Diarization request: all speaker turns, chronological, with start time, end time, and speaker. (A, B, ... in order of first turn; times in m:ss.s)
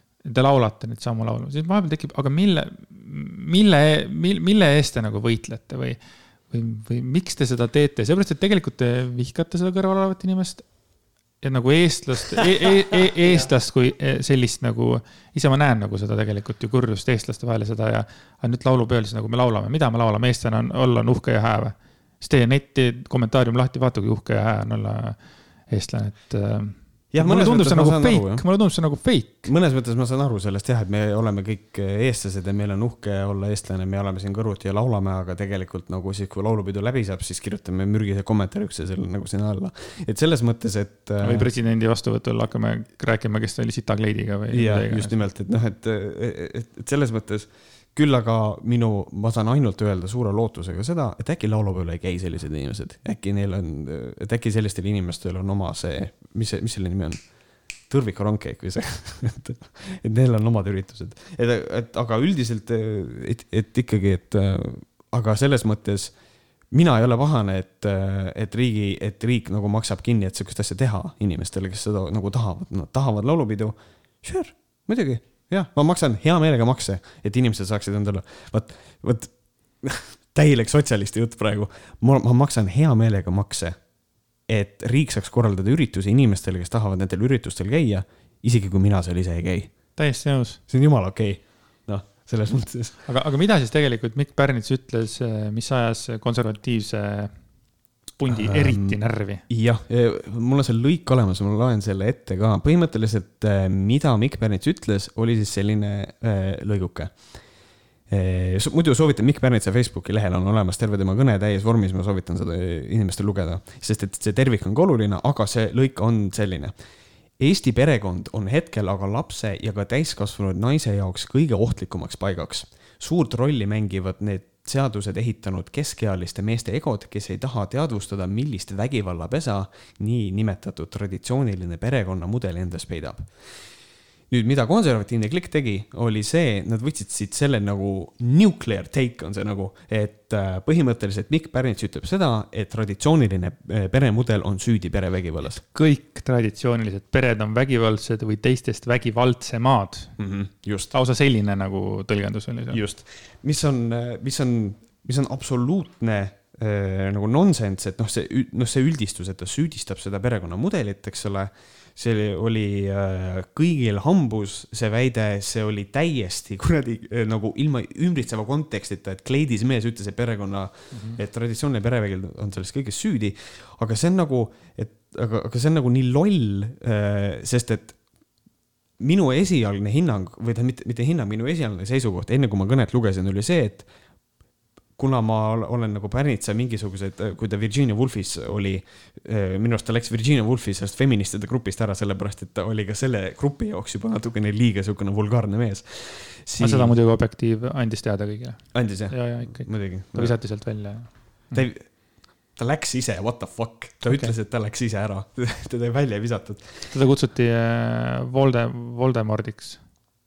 0:00.2-0:06.0 A
0:06.5-0:10.7 A
0:11.4-0:25.2 A
0:25.7-0:29.5 A
0:27.1-0:28.4 B
0:29.4-0:41.5 B
0:41.2-0:45.2 A
0:44.5-0:57.2 B
0:57.9-1:06.1 B
1:06.7-1:23.8 B
1:24.5-1:29.7 B
1:30.0-1:30.6 A
1:30.7-1:33.0 B
1:33.0-1:37.3 A
1:38.2-1:39.4 A
1:38.3-1:39.0 B
1:39.5-1:47.1 B
1:48.1-1:56.7 B
1:57.4-2:13.3 B
2:14.3-2:25.6 B
2:25.6-2:30.1 A
2:30.2-2:30.9 B
2:30.9-2:32.8 A
2:32.7-2:58.0 B
2:50.9-2:51.2 A
2:59.0-3:03.9 B
3:05.0-3:16.9 B
3:16.6-3:21.6 A
3:18.7-3:20.4 B
3:21.5-3:21.9 B
3:22.5-3:26.9 B
3:24.1-3:24.3 A
3:26.9-3:29.8 A